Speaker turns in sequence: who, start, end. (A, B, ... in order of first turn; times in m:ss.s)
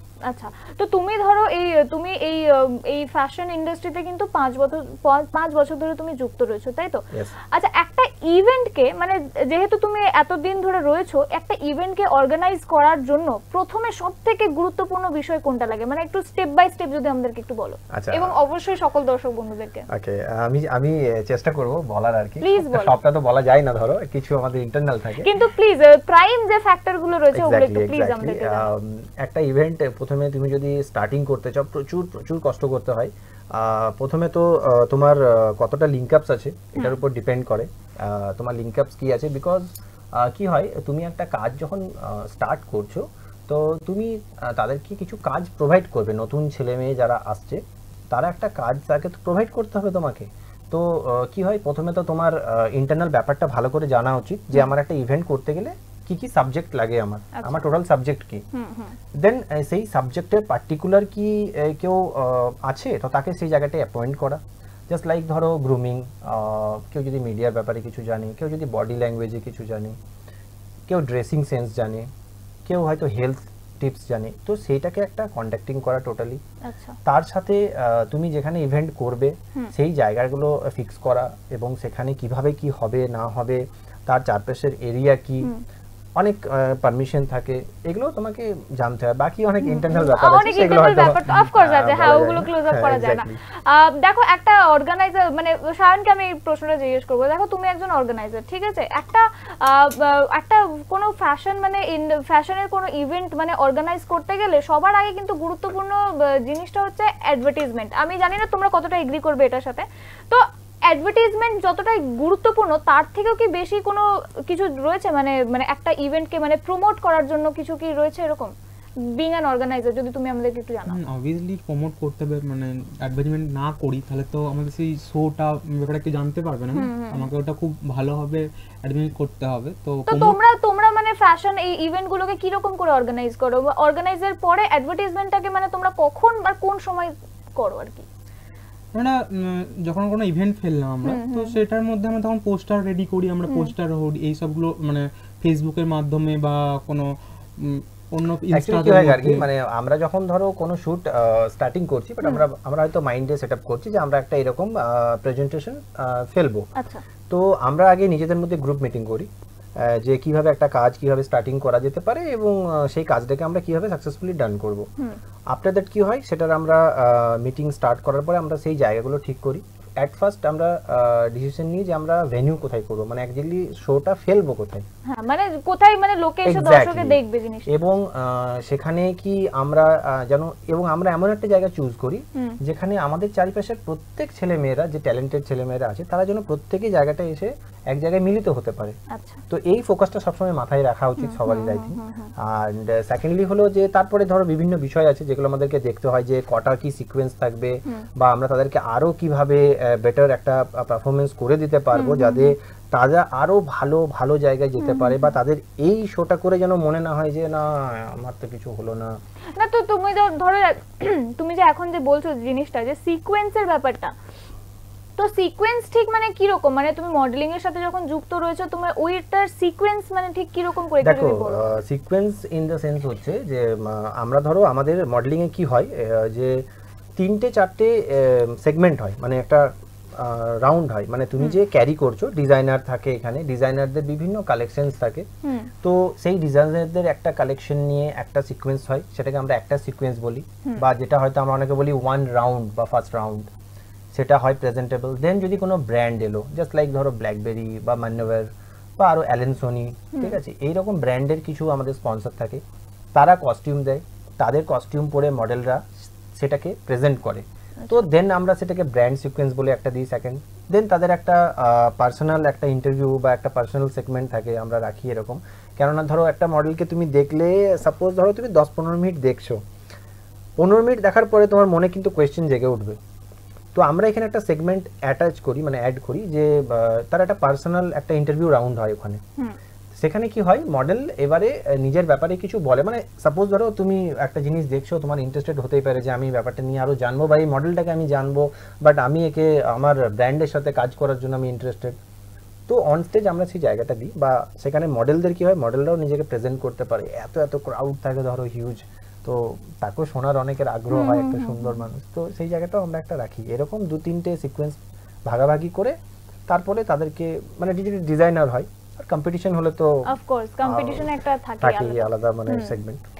0:00.3-0:19.9 A
0:17.9-0:18.4 B
0:19.9-0:25.3 B
0:22.4-0:22.9 A
0:25.2-0:28.7 A
0:27.3-0:58.4 B
0:57.3-0:57.6 A
0:58.5-0:59.0 A
0:59.1-1:10.0 B
1:10.9-1:12.1 B
1:12.6-1:16.4 B
1:16.6-1:17.0 A
1:17.0-1:25.5 B
1:26.2-1:33.4 B
1:29.6-1:58.5 A
1:59.1-2:01.0 A
2:00.9-2:10.4 C
2:06.8-2:07.3 A
2:10.1-2:18.0 A
2:18.9-2:29.4 C
2:21.0-2:21.6 A
2:23.5-2:23.7 A
2:28.5-2:36.7 B
2:36.8-2:37.0 A
2:37.3-2:44.9 B
2:45.5-2:54.8 B
2:55.1-2:57.7 A
2:56.4-3:09.0 B
3:09.1-3:09.4 A
3:09.5-3:29.2 B
3:11.2-3:12.3 A
3:21.9-3:22.5 A
3:24.8-3:25.3 A
3:29.6-3:34.1 A
3:35.2-3:41.7 A
3:41.0-3:46.6 B
3:47.2-3:55.3 B
3:55.4-3:55.7 A
3:55.8-4:03.5 B
4:04.1-4:12.6 B
4:13.1-4:29.6 B
4:30.6-4:33.0 B
4:33.7-4:39.2 B
4:39.9-4:52.0 B
4:52.7-5:06.0 B
5:00.9-5:01.8 A
5:06.5-5:09.9 B
5:10.1-5:12.7 A
5:10.6-5:11.1 B
5:11.6-5:13.0 B